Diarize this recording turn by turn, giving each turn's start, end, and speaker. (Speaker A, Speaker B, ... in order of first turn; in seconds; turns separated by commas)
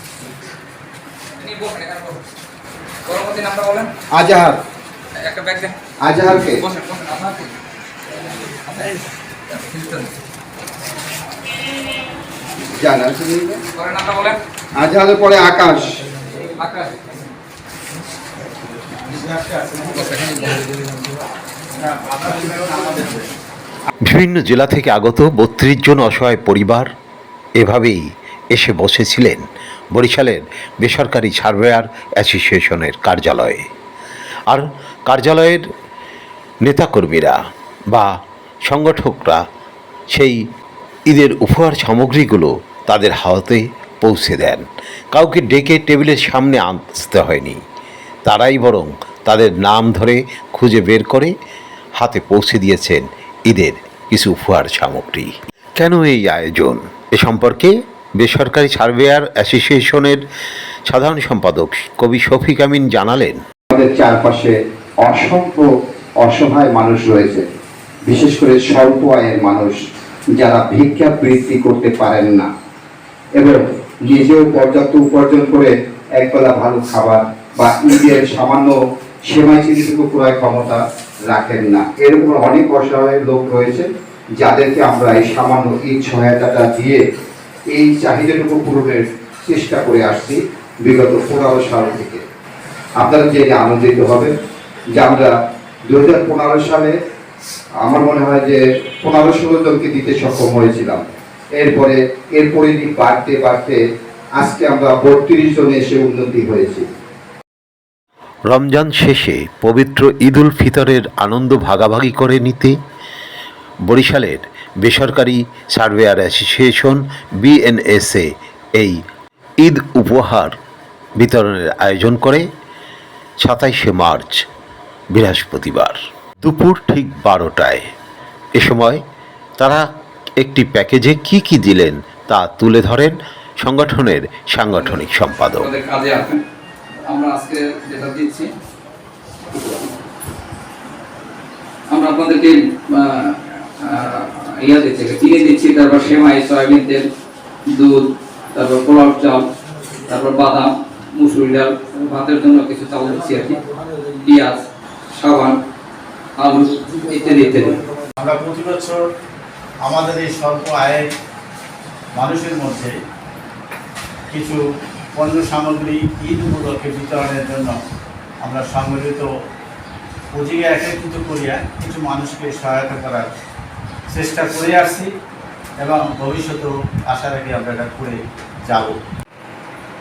Speaker A: 1.4-2.2, Speaker A: 3.1-3.9, Speaker B: 4.1-4.6, Speaker A: 5.2-5.8, Speaker B: 6.0-6.6, Speaker A: 6.6-7.5, Speaker A: 8.7-10.1, Speaker B: 12.8-13.6, Speaker A: 13.8-14.4, Speaker B: 14.8-15.9, Speaker A: 16.6-17.2, Speaker A: 19.2-20.7, Speaker C: 22.0-23.1, Speaker D: 24.1-26.9, Speaker D: 27.6-28.0, Speaker D: 28.5-33.6, Speaker D: 34.5-35.6, Speaker D: 36.6-37.4, Speaker D: 38.7-39.4, Speaker D: 40.1-40.4, Speaker D: 41.1-47.6, Speaker D: 48.3-51.3, Speaker D: 52.0-60.2, Speaker D: 60.9-63.4, Speaker B: 63.7-65.7, Speaker B: 66.2-67.5, Speaker B: 68.1-69.8, Speaker B: 70.4-72.5, Speaker B: 73.4-78.8, Speaker B: 79.3-83.9, Speaker B: 84.4-87.0, Speaker B: 87.7-92.2, Speaker B: 93.0-94.3, Speaker B: 95.0-95.3, Speaker B: 95.9-96.9, Speaker B: 97.8-101.0, Speaker B: 101.6-103.8, Speaker B: 104.4-106.9, Speaker D: 108.5-112.8, Speaker D: 113.9-119.0, Speaker D: 119.6-120.5, Speaker D: 121.2-122.5, Speaker D: 123.4-124.4, Speaker D: 125.1-127.9, Speaker D: 128.6-129.0, Speaker D: 129.6-129.8, Speaker D: 130.4-135.7, Speaker A: 135.6-136.4, Speaker A: 137.1-138.5, Speaker A: 139.5-139.9, Speaker A: 141.9-147.1, Speaker A: 147.8-148.0, Speaker A: 148.6-149.5, Speaker A: 150.1-153.6, Speaker A: 154.2-154.6, Speaker A: 155.2-155.6, Speaker A: 156.4-157.8, Speaker C: 158.2-159.0, Speaker C: 159.8-161.1, Speaker C: 162.2-162.9, Speaker C: 164.3-164.6, Speaker C: 165.2-167.8, Speaker C: 168.4-169.3, Speaker C: 170.3-173.3, Speaker C: 174.1-175.1, Speaker C: 175.8-178.9